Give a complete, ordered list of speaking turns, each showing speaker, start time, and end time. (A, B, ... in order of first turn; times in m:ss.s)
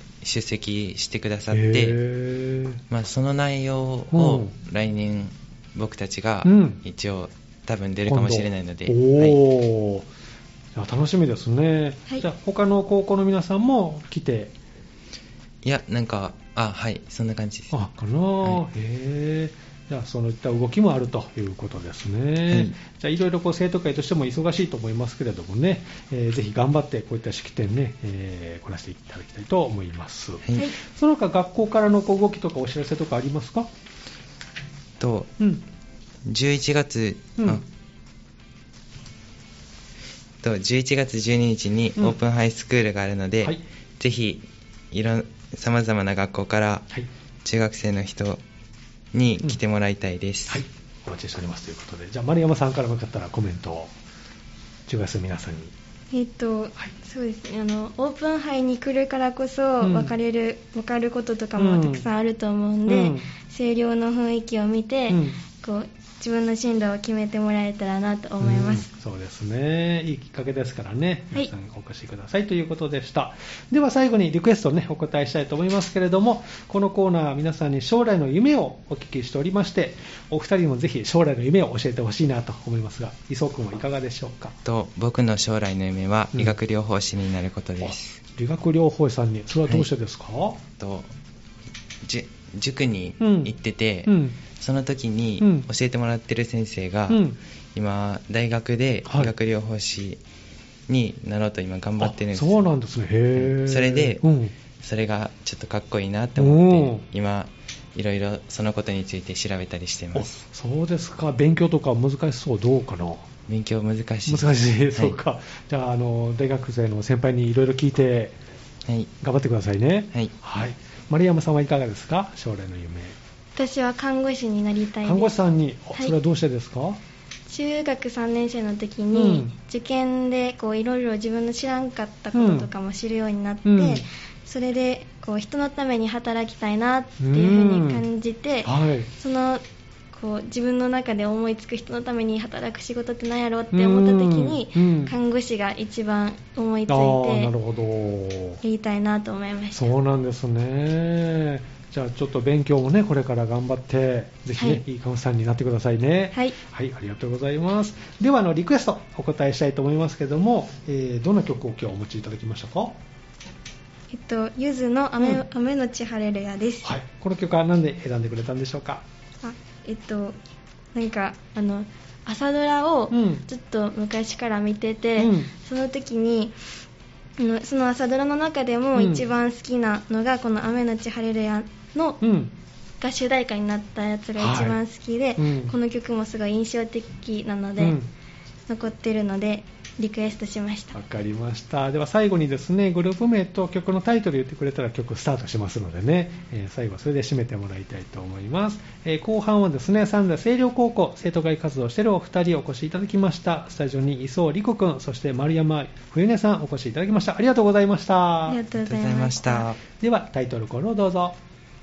0:00.2-0:02.0 A
0:01.5-0:02.8 B
0:02.9-0:09.4 A
0:04.1-0:04.5 B
0:06.4-0:06.8 B
0:08.1-0:10.1 B
0:10.8-0:14.5 B
0:15.6-0:17.8 A
0:17.7-0:33.7 B
0:22.5-0:22.8 A
0:35.0-0:35.4 A
0:36.2-0:37.6 A
0:37.4-0:37.6 B
0:40.4-0:46.9 A
0:47.4-0:48.4 A
0:49.1-0:50.6 A
0:50.5-0:53.9 B
0:54.9-0:55.7 B
0:56.1-1:08.9 C
0:59.8-1:00.1 B
1:01.6-1:02.1 B
1:02.9-1:03.3 B
1:05.1-1:05.4 B
1:08.4-1:24.6 B
1:24.6-1:28.2 A
1:27.8-1:30.6 B
1:30.8-1:31.1 A
1:32.0-1:37.2 A
1:33.2-1:33.5 B
1:34.1-1:34.4 B
1:35.4-1:35.7 B
1:37.1-1:37.4 B
1:37.7-1:40.2 A
1:39.1-1:39.3 B
1:40.9-1:42.6 A
1:42.0-1:44.5 B
1:43.4-1:44.2 A
1:44.8-1:50.4 A
1:46.4-1:47.0 B
1:50.2-1:53.3 B
1:53.5-1:55.2 A
1:54.3-1:58.4 B
1:58.9-1:59.1 A
1:59.2-2:03.2 B
2:03.6-2:05.4 C
2:05.0-2:07.0 B
2:07.5-2:27.5 C
2:09.1-2:09.5 B
2:12.3-2:12.7 B
2:13.7-2:14.0 B
2:17.2-2:18.1 B
2:18.6-2:19.1 B
2:23.7-2:25.1 B
2:26.9-2:28.6 B
2:28.6-2:29.8 C
2:29.7-2:43.0 B
2:44.1-2:46.9 C
2:46.8-2:49.0 B
2:49.4-2:50.4 C
2:50.9-2:56.6 C
2:53.1-2:53.4 B
2:55.2-2:55.5 B
2:57.4-3:02.2 C
2:59.0-2:59.3 B
3:02.2-3:02.5 B
3:03.0-3:08.0 C
3:04.4-3:04.8 B
3:05.4-3:05.8 B
3:07.8-3:08.1 B
3:08.7-3:11.0 C
3:10.9-3:28.6 B
3:28.5-3:29.7 C
3:28.7-3:29.8 A
3:30.0-3:31.4 B